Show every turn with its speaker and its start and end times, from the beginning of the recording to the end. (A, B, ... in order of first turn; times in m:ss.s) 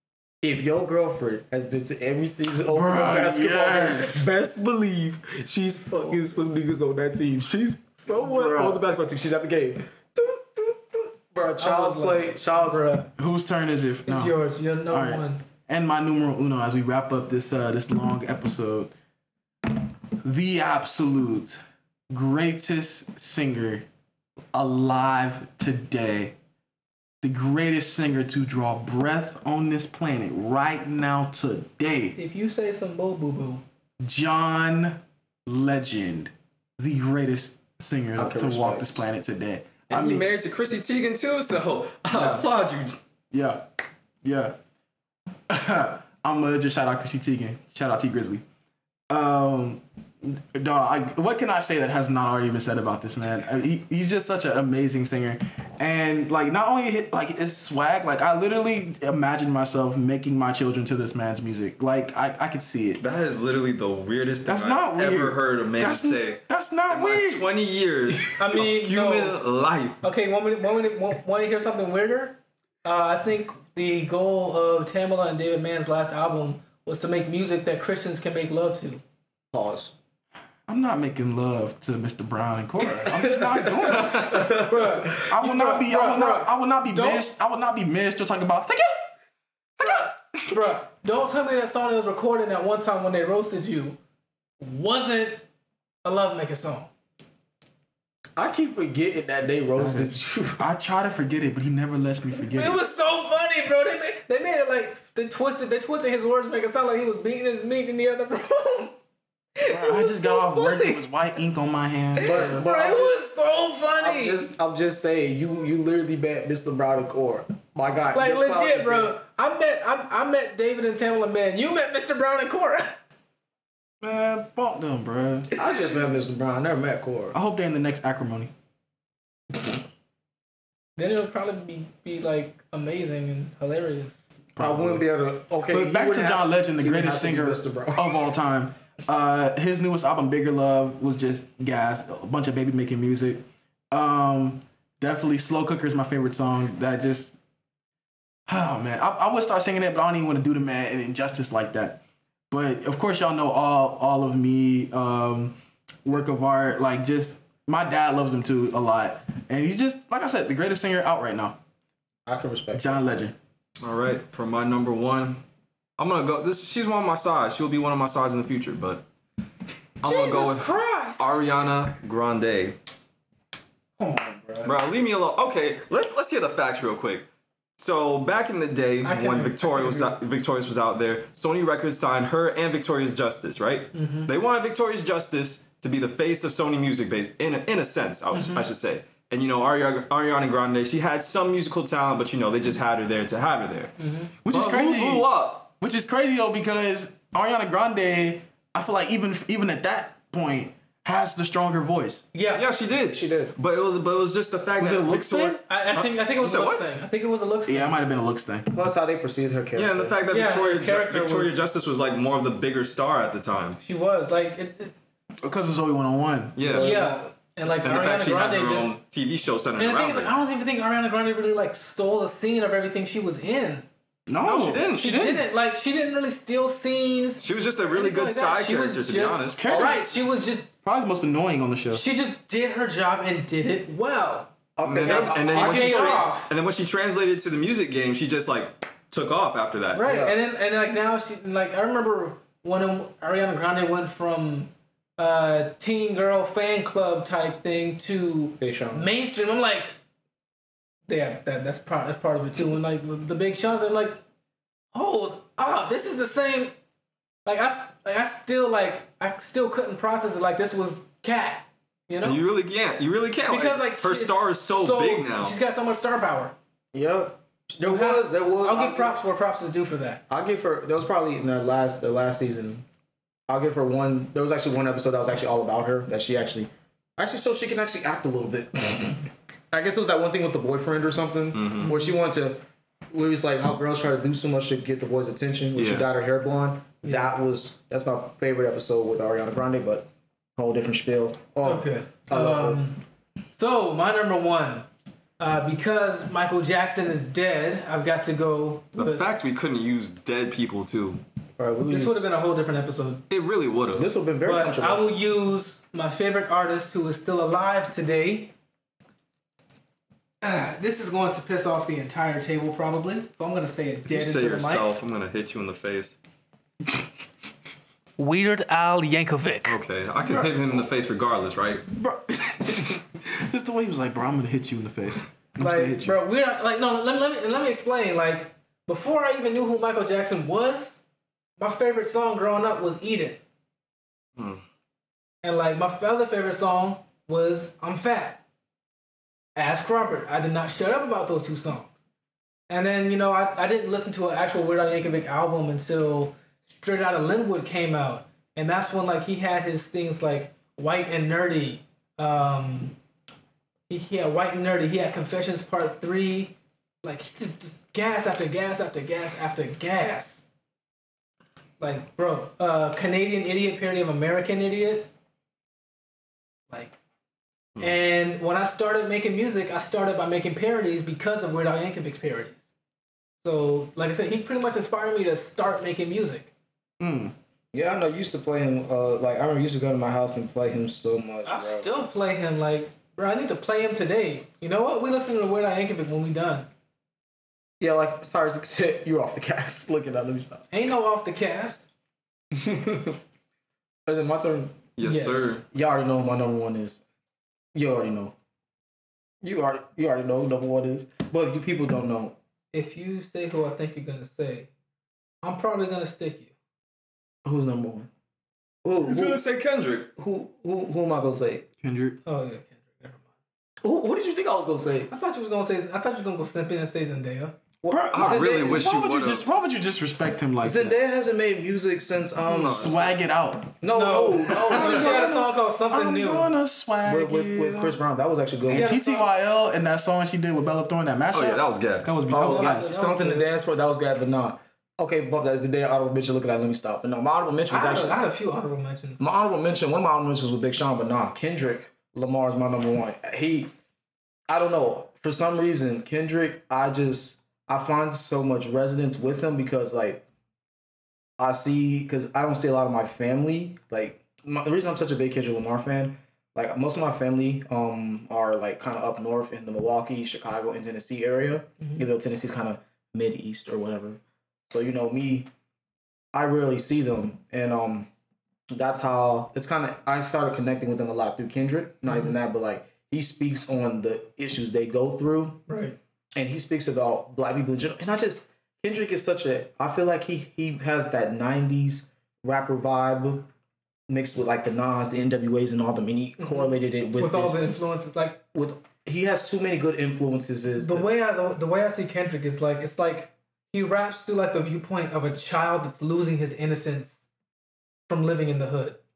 0:00.4-0:12.8 A
0:02.6-0:04.3 B
0:08.1-0:08.8 B
0:11.6-0:13.1 C
0:13.2-0:14.4 B
0:14.1-0:15.4 C
0:14.9-0:18.9 B
0:20.2-0:23.9 B
0:24.5-0:26.4 B
0:27.2-0:32.2 B
0:32.2-0:33.6 C
0:34.0-0:40.3 B
0:38.2-0:39.0 A
0:39.9-0:43.0 D
0:42.1-0:42.5 B
0:43.3-0:43.7 B
0:44.2-0:44.6 B
0:45.5-0:48.4 B
0:49.1-1:03.0 B
1:03.0-1:10.0 D
1:04.5-1:07.5 B
1:08.4-1:09.4 C
1:10.0-1:19.0 C
1:19.5-1:19.9 A
1:20.7-1:29.1 B
1:23.1-1:25.2 A
1:24.6-1:27.3 C
1:29.8-1:30.6 B
1:30.5-1:34.0 C
1:34.6-1:35.4 C
1:36.0-1:36.9 C
1:38.4-1:40.6 A
1:39.8-1:42.8 B
1:42.4-1:49.0 C
1:49.6-1:51.1 C
1:49.7-1:52.7 B
1:52.2-1:54.5 C
1:52.2-1:53.2 A
1:54.0-1:59.2 A
1:58.1-2:03.0 C
2:04.0-2:05.5 B
2:05.5-2:07.4 A
2:07.3-2:08.5 B
2:11.0-2:14.2 C
2:14.6-2:15.0 B
2:14.6-2:18.3 A
2:15.7-2:27.4 B
2:28.5-2:41.6 B
2:42.3-2:43.1 A
2:42.7-2:43.4 B
2:43.8-2:45.4 D
2:46.0-2:49.0 D
2:50.0-2:52.8 D
2:50.0-2:51.4 C
2:54.0-2:54.7 B
2:54.6-2:57.3 D
2:57.8-3:13.9 D
2:59.0-3:00.2 C
3:03.9-3:04.3 C
3:08.3-3:08.7 C
3:14.0-3:14.3 C
3:14.4-3:22.2 B
3:14.5-3:15.7 D
3:22.3-3:22.7 C
3:22.5-3:26.8 D
3:23.0-3:23.6 A
3:24.8-3:25.2 B
3:25.0-3:25.3 A
3:25.4-3:28.0 C
3:27.7-3:28.7 B
3:28.7-3:30.2 A
3:29.8-3:33.8 D
3:30.3-3:31.6 C
3:33.8-3:35.0 C
3:35.4-3:36.6 B
3:36.6-3:37.0 D
3:36.6-3:37.2 A
3:36.8-3:38.9 C
3:37.8-3:40.3 D
3:39.8-3:43.9 C
3:44.3-3:45.4 B
3:44.4-3:45.4 D
3:45.0-3:50.7 C
3:47.4-3:49.9 D
3:49.6-3:50.0 B
3:50.8-3:52.0 B
3:51.9-3:56.5 C
3:54.8-3:56.3 A
3:54.8-4:00.0 D
3:59.9-4:09.9 C
4:00.0-4:00.4 A
4:08.6-4:09.1 A
4:11.1-4:14.2 C
4:14.9-4:16.8 C
4:17.5-4:22.4 C
4:22.2-4:25.6 D
4:23.5-4:26.6 C
4:26.9-4:29.2 A
4:27.8-4:30.2 C
4:30.3-4:32.8 A
4:33.5-4:52.8 A
4:41.5-4:41.9 D
4:41.9-4:42.1 C
4:45.8-4:46.1 D
4:47.0-4:47.3 C
4:51.6-4:53.0 C
4:53.6-4:54.9 C
4:55.4-4:59.3 C
4:59.0-5:01.2 D
5:01.6-5:02.1 A
5:01.9-5:03.2 C
5:03.3-5:04.1 D
5:03.9-5:05.1 A
5:04.4-5:08.5 C
5:10.4-5:14.9 C
5:14.1-5:16.2 D
5:18.2-5:19.8 C
5:19.7-5:21.9 D
5:20.2-5:20.8 B
5:21.9-5:26.2 B
5:25.6-5:31.0 C
5:31.6-5:33.4 C
5:34.4-5:34.6 D
5:35.4-5:38.4 C
5:39.6-5:41.9 C
5:42.7-5:53.0 C
5:53.9-6:00.4 C
6:01.8-6:05.1 C
6:06.7-6:07.0 C
6:07.8-6:12.6 C
6:13.4-6:16.5 C
6:17.0-6:17.3 B
6:17.7-6:21.9 A
6:21.5-6:26.7 C
6:27.8-6:30.6 A
6:30.7-6:31.8 C
6:32.5-6:33.2 A
6:34.1-6:34.9 A
6:35.0-6:35.6 D
6:35.0-6:35.6 C
6:35.6-6:37.0 A
6:37.7-6:38.4 A
6:39.4-6:42.4 A
6:42.7-6:44.7 C
6:45.4-6:46.5 C
6:47.4-6:48.1 A
6:48.8-6:49.4 A
6:49.0-6:50.1 D
6:50.2-6:51.7 A
6:51.8-6:52.2 B
6:52.2-6:53.3 C
6:53.8-6:55.1 A
6:55.1-6:57.6 C
6:57.8-6:58.9 A
6:57.9-7:01.0 B
6:58.1-6:59.5 D
7:00.6-7:03.0 A
7:02.5-7:03.1 D
7:02.6-7:03.8 B
7:03.8-7:05.4 A
7:03.9-7:06.5 C
7:04.5-7:08.0 B
7:07.0-7:09.0 A
7:08.7-7:12.9 B
7:08.7-7:09.3 C
7:11.3-7:12.2 D
7:12.3-7:18.2 A
7:12.3-7:13.5 C
7:17.7-7:19.2 C
7:19.2-7:23.7 A
7:24.5-7:30.2 A
7:31.4-7:45.5 A
7:41.8-7:42.1 C
7:46.3-7:48.1 A
7:48.7-7:55.6 A
7:52.1-7:52.4 C
7:55.7-7:56.0 C
7:56.4-8:03.5 A
8:04.1-8:07.6 A
8:06.4-8:08.4 C
8:08.5-8:11.1 A
8:10.8-8:17.2 C
8:18.1-8:19.0 C